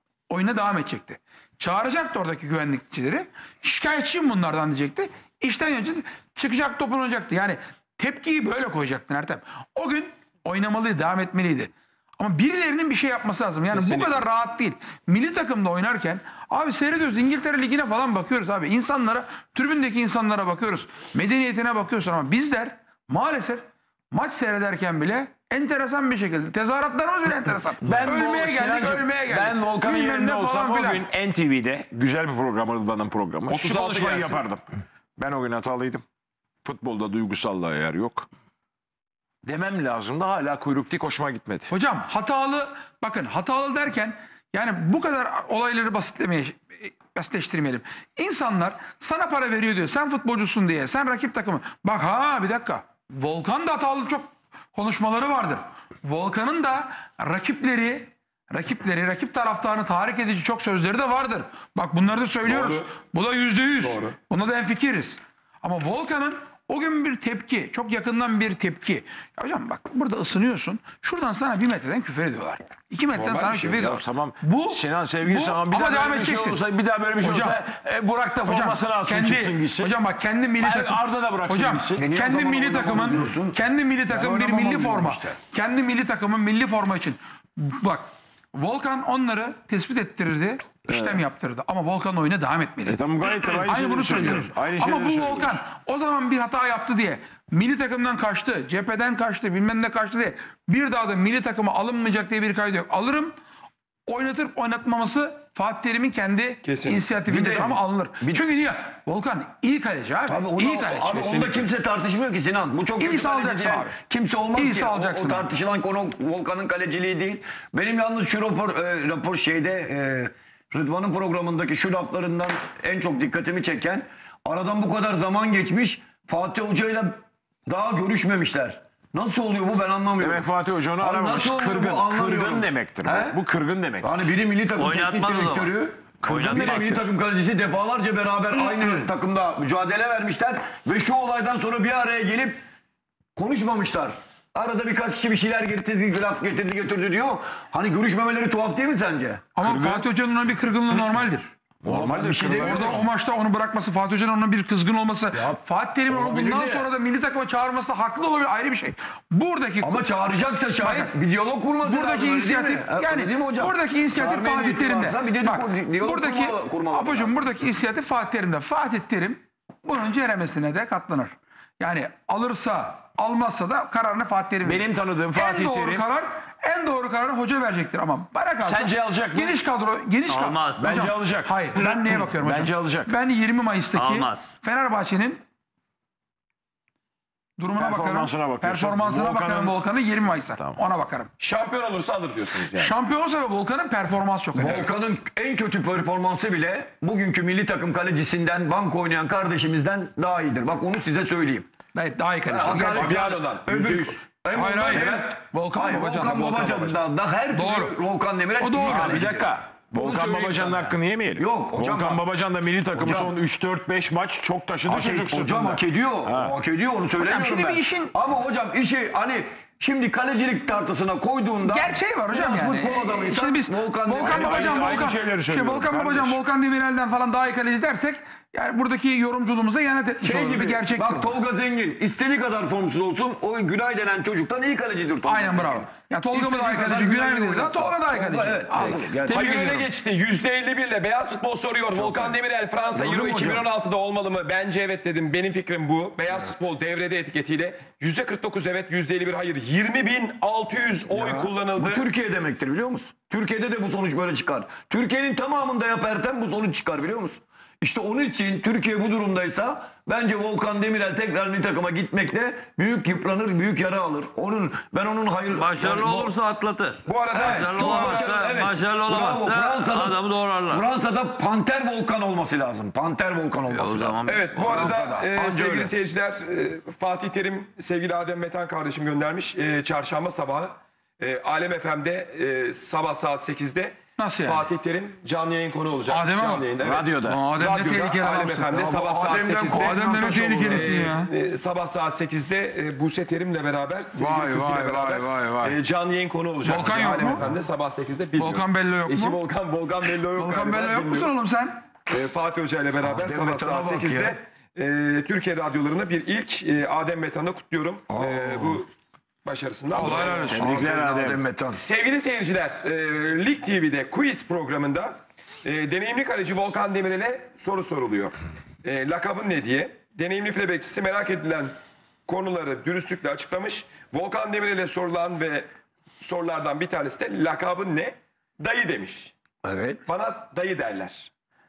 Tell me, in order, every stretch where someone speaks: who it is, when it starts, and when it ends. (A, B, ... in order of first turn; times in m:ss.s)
0:00.3-0:31.0 A
0:13.7-0:14.2 B
0:27.8-0:34.6 C
0:33.5-0:34.4 B
0:35.2-0:36.0 C
0:36.6-0:38.3 C
0:39.4-0:41.7 C
0:41.7-1:16.6 A
1:02.4-1:02.9 B
1:03.8-1:04.2 B
1:13.2-1:20.0 C
1:13.2-1:13.8 B
1:17.2-1:17.6 A
1:18.4-1:43.4 A
1:20.6-1:22.0 C
1:22.0-1:25.4 D
1:30.9-1:31.2 C
1:32.8-1:35.6 C
1:44.1-1:51.1 A
1:46.6-1:47.0 B
1:47.3-1:48.4 D
1:50.3-2:10.4 D
1:51.0-1:51.7 B
1:53.0-1:54.0 A
1:54.5-1:55.5 A
2:10.2-2:14.1 C
2:11.0-2:13.4 D
2:14.0-2:22.6 D
2:14.7-2:17.1 E
2:23.4-2:29.4 D
2:29.5-2:31.5 A
2:29.6-2:30.1 C
2:31.8-2:33.1 C
2:31.8-2:33.0 D
2:32.6-2:40.0 A
2:35.3-2:36.9 D
2:39.8-2:47.4 D
2:40.8-2:41.1 A
2:41.8-3:05.4 A
2:54.6-2:56.0 C
2:58.6-2:59.6 C
3:00.3-3:01.1 E
3:00.8-3:03.1 C
3:03.9-3:04.6 E
3:07.6-3:11.3 A
3:07.8-3:09.8 C
3:10.5-3:10.8 C
3:11.4-3:12.9 B
3:12.7-3:14.9 A
3:14.5-3:21.7 D
3:21.9-3:23.3 A
3:22.5-3:32.2 D
3:22.7-3:24.2 B
3:24.5-3:26.7 A
3:24.8-3:25.4 B
3:26.0-3:27.0 B
3:27.5-3:28.0 A
3:28.6-3:29.3 A
3:28.8-3:36.5 C
3:32.9-3:33.3 D
3:34.8-3:45.0 D
3:37.2-3:38.1 A
3:41.6-3:51.3 A
3:44.2-3:46.4 C
3:50.2-3:59.4 D
3:55.2-3:59.9 A
3:59.1-4:12.0 B
4:02.9-4:03.6 D
4:11.1-4:26.3 D
4:25.5-4:30.8 E
4:27.0-4:28.3 B
4:27.3-4:35.9 D
4:33.7-4:35.0 E
4:34.2-5:01.3 B
4:44.2-4:44.6 A
4:46.1-4:46.7 A
4:46.8-4:47.4 C
4:47.2-4:48.7 A
4:48.7-4:51.0 D
4:49.7-4:51.3 A
4:54.1-4:55.8 A
4:56.6-4:57.4 A
4:58.4-4:59.4 A
5:00.4-5:01.8 A
5:02.1-5:08.9 B
5:03.0-5:04.3 D
5:08.1-5:08.8 D
5:09.4-5:10.6 B
5:09.9-5:10.7 A
5:10.1-5:11.8 D
5:10.5-5:11.4 C
5:11.7-5:21.7 B
5:22.3-5:25.7 B
5:26.2-5:29.3 B
5:29.6-5:30.0 D
5:30.0-5:31.3 B